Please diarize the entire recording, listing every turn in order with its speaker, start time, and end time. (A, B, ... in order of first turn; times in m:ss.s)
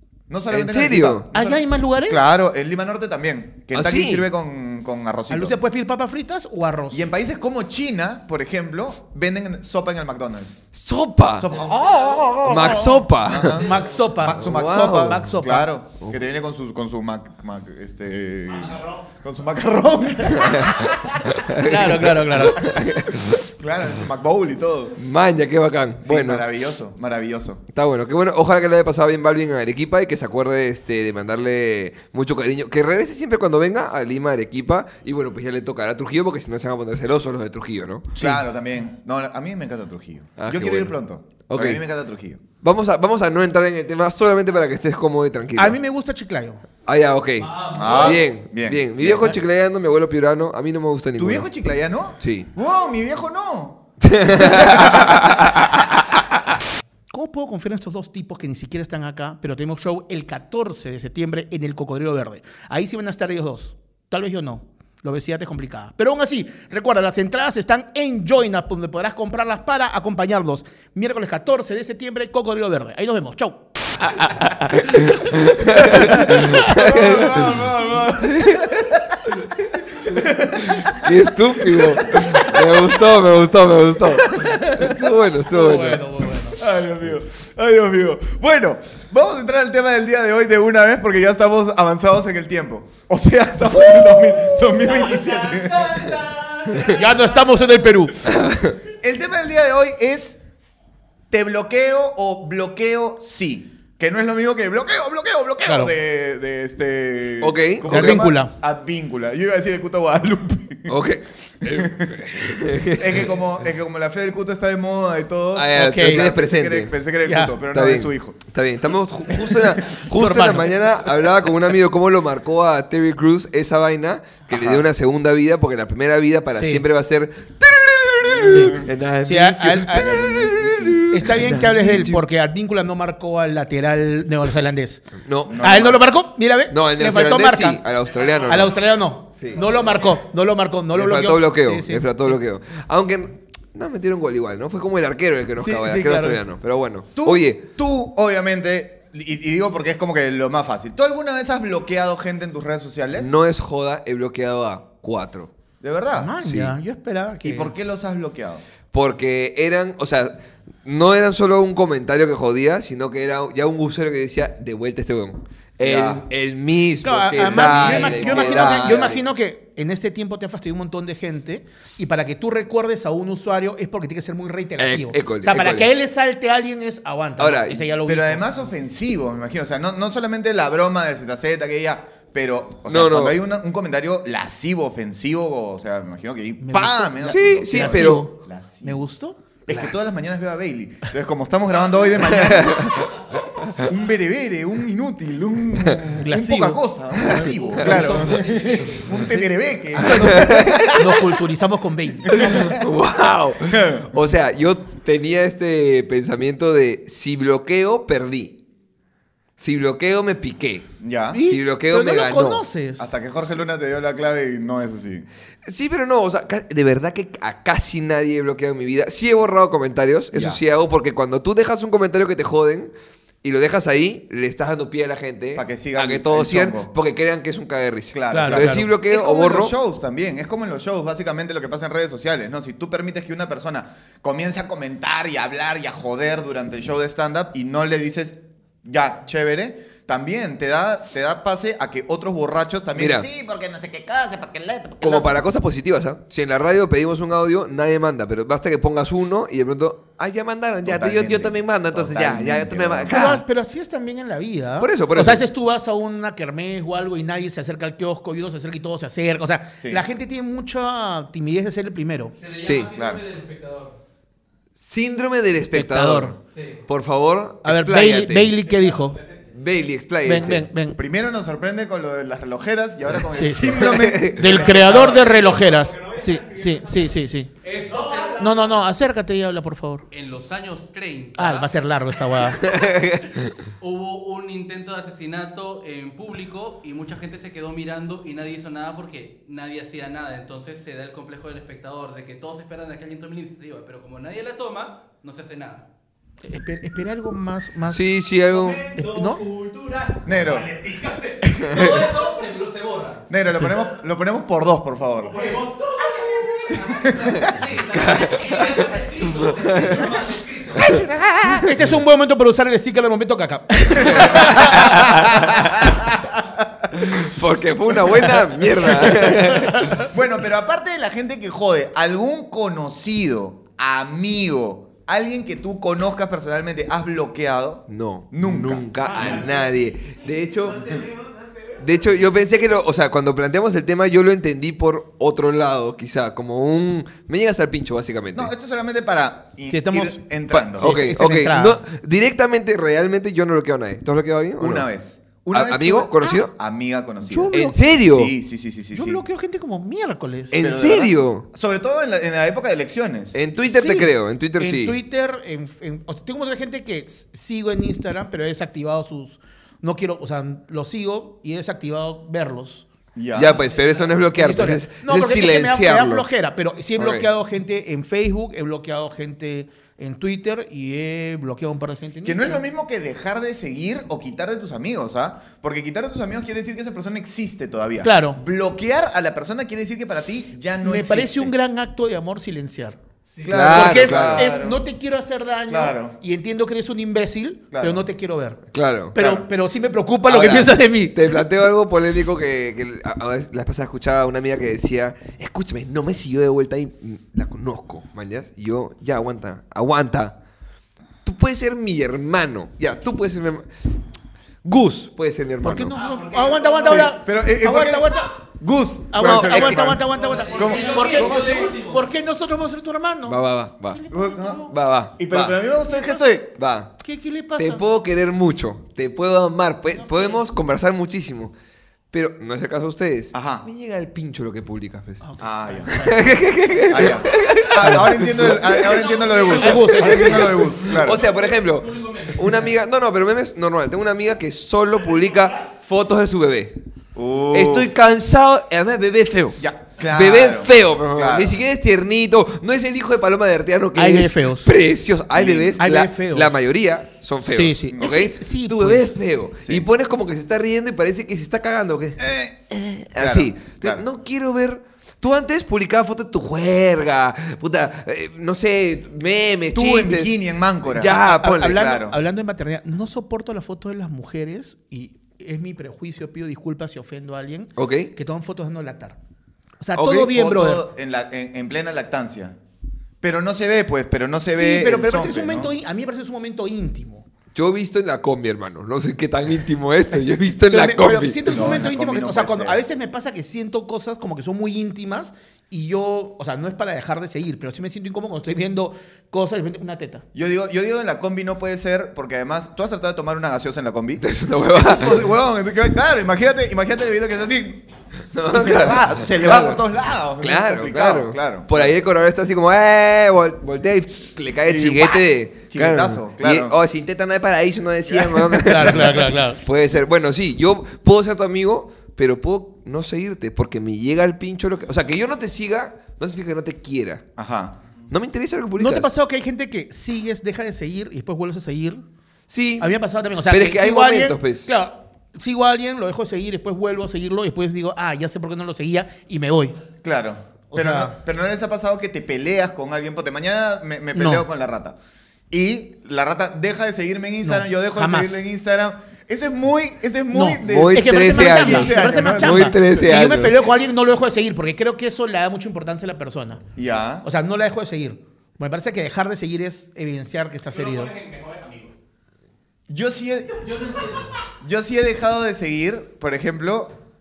0:00.3-0:05.6 A
0:00.5-0:01.3 B
0:01.3-0:02.2 C
0:03.7-0:04.2 B
0:05.3-0:07.0 C
0:06.9-0:10.6 A
0:10.8-0:13.7 B
0:11.3-0:20.9 A
0:13.4-0:13.9 D
0:13.5-0:15.7 C
0:14.4-0:15.2 B
0:18.5-0:19.1 E
0:20.4-0:23.5 B
0:21.6-0:22.7 C
0:23.5-0:25.0 A
0:25.0-0:26.4 B
0:26.0-0:27.6 A
0:27.7-0:38.1 B
0:38.2-0:38.4 C
0:38.2-0:42.4 A
0:40.4-0:40.9 B
0:41.5-0:41.8 B
0:42.6-0:45.8 B
0:45.6-0:46.6 C
0:46.8-0:51.5 B
0:47.4-0:48.2 D
0:47.7-0:49.4 A
0:51.2-0:53.8 A
0:52.2-0:52.5 B
0:54.0-0:56.2 B
0:54.3-0:55.6 A
0:57.1-1:15.0 C
1:14.8-1:18.9 B
1:15.7-1:19.0 A
1:20.0-1:23.1 A
1:20.6-1:26.1 B
1:24.1-1:25.1 A
1:25.5-1:26.6 C
1:26.4-1:36.2 A
1:34.3-1:37.8 E
1:36.8-1:38.2 C
1:38.3-1:38.8 B
1:38.8-1:40.4 A
1:41.3-1:51.0 A
1:45.6-1:45.9 C
1:47.4-1:48.2 B
1:47.9-1:48.5 C
1:50.9-1:53.3 B
1:51.6-1:52.2 A
1:52.9-1:58.4 A
1:55.6-1:56.9 B
1:55.7-1:56.3 C
1:57.2-1:57.6 C
1:57.7-2:12.2 B
1:59.4-2:00.0 A
2:00.1-2:00.8 C
2:04.5-2:04.9 A
2:06.6-2:06.8 C
2:08.4-2:08.9 A
2:08.4-2:10.2 C
2:09.9-2:12.0 A
2:11.1-2:17.8 C
2:15.2-2:15.8 B
2:15.4-2:16.0 A
2:16.7-2:18.7 B
2:18.0-2:20.2 E
2:18.4-2:22.3 C
2:20.9-2:27.6 B
2:25.6-2:26.4 C
2:27.2-2:33.4 A
2:33.2-2:35.5 B
2:35.8-2:36.4 A
2:36.1-2:37.7 C
2:36.4-2:36.7 B
2:37.4-2:38.6 A
2:38.9-2:49.2 B
2:45.8-2:46.2 A
2:47.0-2:58.4 C
2:47.4-2:49.1 A
2:54.8-2:55.9 B
2:57.4-2:57.9 B
2:58.0-3:09.0 A
3:02.9-3:03.4 B
3:06.6-3:08.3 C
3:07.3-3:08.3 B
3:08.8-3:09.4 C
3:09.7-3:13.1 A
3:12.2-3:13.1 B
3:13.8-3:21.3 A
3:16.2-3:18.4 C
3:17.2-3:18.3 B
3:18.2-3:19.1 D
3:19.1-3:22.4 C
3:20.0-3:21.0 B
3:22.3-3:22.8 A
3:22.3-3:28.6 B
3:23.7-3:24.1 A
3:29.6-3:32.6 B
3:31.0-3:31.4 A
3:31.3-3:33.1 C
3:33.0-3:35.3 A
3:35.6-3:42.9 B
3:40.3-3:40.6 A
3:43.4-3:49.7 B
3:45.6-3:46.9 A
3:48.1-4:05.3 A
3:48.3-3:48.9 C
4:03.0-4:03.3 B
4:05.0-4:13.4 B
4:10.8-4:13.2 A
4:13.1-4:22.4 C
4:14.8-4:15.4 B
4:22.4-4:24.0 D
4:22.6-4:22.9 B
4:22.8-4:23.2 A
4:24.8-4:28.5 B
4:25.7-4:26.4 C
4:26.5-4:26.8 D
4:27.6-4:29.2 C
4:28.6-4:29.5 E
4:29.5-4:30.6 B
4:30.2-4:31.0 C
4:31.0-4:35.3 A
4:33.3-4:37.5 C
4:33.5-4:34.8 B
4:34.6-4:37.2 E
4:37.6-4:38.4 D
4:37.8-4:38.8 E
4:38.4-4:40.0 C
4:40.1-4:41.7 D
4:41.4-4:42.7 C
4:42.6-4:43.5 B
4:43.8-4:55.8 D
4:56.4-4:58.0 C
4:57.9-4:58.9 B
4:58.5-5:01.6 E
4:59.0-4:59.4 C
5:00.3-5:00.7 A
5:01.5-5:01.8 A
5:01.6-5:03.2 D
5:01.6-5:02.1 B
5:03.3-5:05.4 A
5:05.2-5:06.8 E
5:05.4-5:10.9 D
5:07.0-5:07.6 A
5:07.9-5:08.8 B
5:09.5-5:10.0 B
5:10.8-5:11.7 B
5:11.4-5:15.5 C
5:14.0-5:15.7 A
5:14.1-5:15.5 B
5:17.0-5:20.1 B
5:18.0-5:29.5 A
5:27.9-5:31.0 B
5:29.1-5:31.8 E
5:31.8-5:38.5 B
5:38.3-5:41.0 A
5:39.7-5:41.8 C
5:40.7-5:44.9 B
5:44.6-5:49.2 A
5:45.5-5:46.5 B
5:47.2-5:47.8 C
5:47.5-5:48.3 B
5:48.9-5:50.6 C
5:50.5-5:51.5 B
5:50.5-5:53.4 A
5:53.3-5:55.0 B
5:53.7-6:02.8 C
6:03.2-6:03.6 A
6:03.3-6:06.3 B
6:03.8-6:12.6 C
6:07.0-6:07.3 B
6:12.2-6:21.5 A
6:18.0-6:18.4 C
6:20.8-6:31.4 C
6:23.4-6:24.8 A
6:23.4-6:24.5 B
6:25.7-6:26.2 A
6:27.7-6:28.0 A
6:28.7-6:29.2 B
6:29.2-6:29.5 A
6:30.3-6:40.4 B
6:41.2-6:43.7 B
6:44.6-6:46.0 B
6:45.6-6:48.4 C
6:45.9-6:47.1 E
6:46.9-6:51.7 A
6:49.1-6:53.4 C
6:49.2-6:50.0 B
6:50.1-6:52.0 D
6:50.4-6:51.1 E
6:53.3-6:54.0 B
6:53.9-6:54.7 C
6:54.1-6:54.6 A
6:54.7-6:55.6 B
6:55.2-6:56.5 A
6:56.6-6:57.0 B
6:57.0-6:57.8 C
6:57.6-7:01.5 B
7:00.0-7:00.4 C
7:02.1-7:05.2 B
7:03.3-7:03.6 A
7:05.2-7:06.4 C
7:05.4-7:06.2 A
7:05.9-7:16.8 B
7:06.9-7:11.2 A
7:08.7-7:12.7 D
7:09.5-7:10.7 C
7:17.2-7:17.9 A
7:17.5-7:32.2 B
7:19.6-7:21.6 A
7:24.0-7:24.7 C
7:25.3-7:25.9 A
7:25.8-7:26.5 C
7:27.5-7:29.1 C
7:27.9-7:28.3 A
7:29.6-7:29.9 A
7:32.2-7:34.0 A
7:32.8-7:40.3 B
7:39.7-7:42.2 A
7:40.9-7:41.8 B
7:41.1-7:49.2 C
7:47.8-7:48.1 B
7:49.8-7:50.8 C
7:50.0-7:50.3 B
7:50.0-7:52.6 A
7:53.2-7:55.7 A
7:54.5-7:57.2 C
7:57.6-8:01.8 B
8:00.7-8:10.2 C
8:01.5-8:02.8 A
8:10.3-8:17.8 A
8:14.2-8:15.2 B
8:18.3-8:19.8 B
8:18.5-8:21.9 A
8:20.4-8:37.2 B
8:24.7-8:26.8 A
8:28.1-8:28.9 A
8:28.5-8:29.6 C
8:37.4-8:37.8 A
8:38.1-8:39.1 B
8:38.8-8:42.0 C
8:42.5-8:42.9 B
8:42.8-8:49.8 C
8:43.5-8:44.7 B
8:50.0-8:55.0 A
8:50.7-8:51.2 C
8:54.1-8:54.5 C
8:55.5-9:03.4 A
8:57.4-8:58.4 C
9:00.3-9:06.6 C
9:00.6-9:03.7 B
9:06.8-9:07.3 A
9:07.2-9:11.1 C
9:10.6-9:12.0 E
9:12.9-9:13.9 A
9:13.6-9:14.4 D
9:14.6-9:16.9 A